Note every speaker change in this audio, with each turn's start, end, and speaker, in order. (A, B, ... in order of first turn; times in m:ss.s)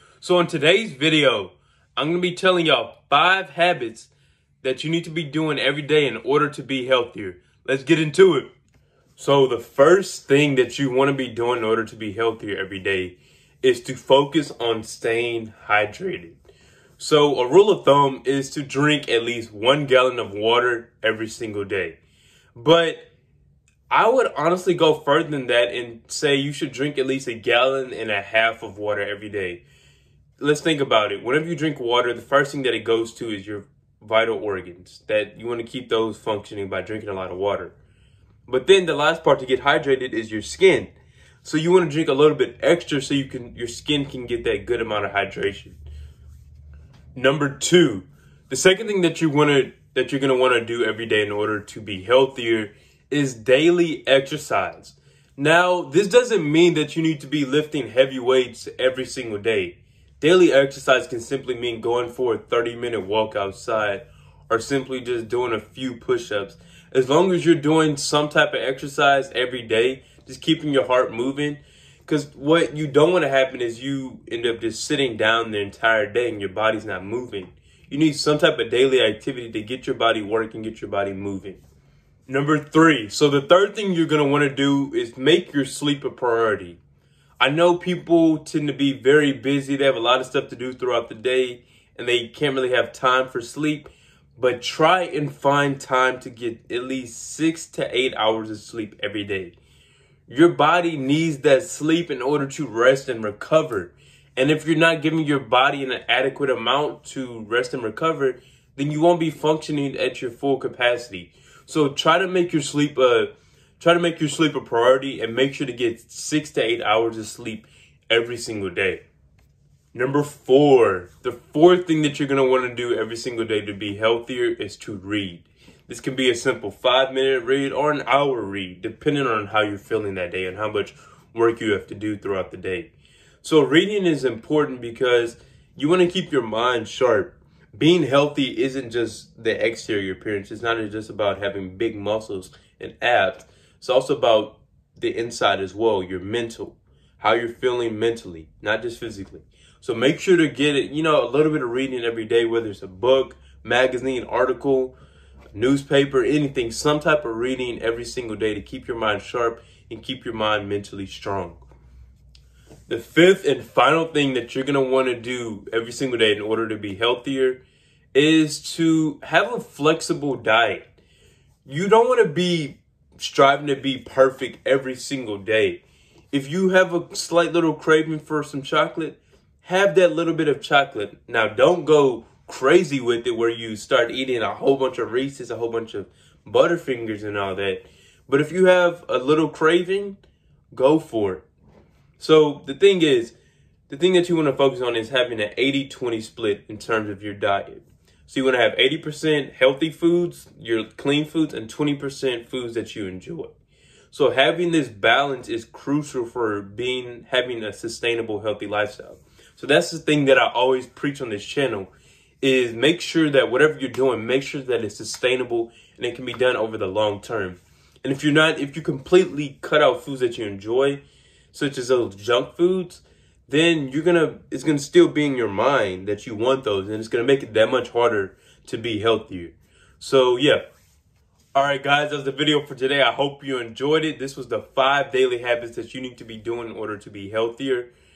0:00.2-0:04.1 A
0:04.6-0:08.5 A
0:09.2-0:16.4 A
0:17.0-0:22.0 A
0:22.5-0:23.1 A
0:23.9-0:29.6 A
0:30.4-0:37.7 A
0:38.5-0:40.9 A
0:41.4-0:45.8 A
0:47.1-1:21.6 A
1:22.3-1:26.8 A
1:27.4-1:39.5 A
1:40.3-1:59.0 A
1:59.9-2:12.9 A
2:13.4-2:34.9 A
2:35.5-2:41.6 A
2:42.9-2:47.6 A
2:48.1-2:50.8 A
2:51.6-3:10.2 A
3:10.7-3:11.4 A
3:12.2-3:13.3 A
3:13.9-3:23.5 A
3:24.1-3:41.0 A
3:41.5-3:50.6 A
3:51.5-3:57.9 A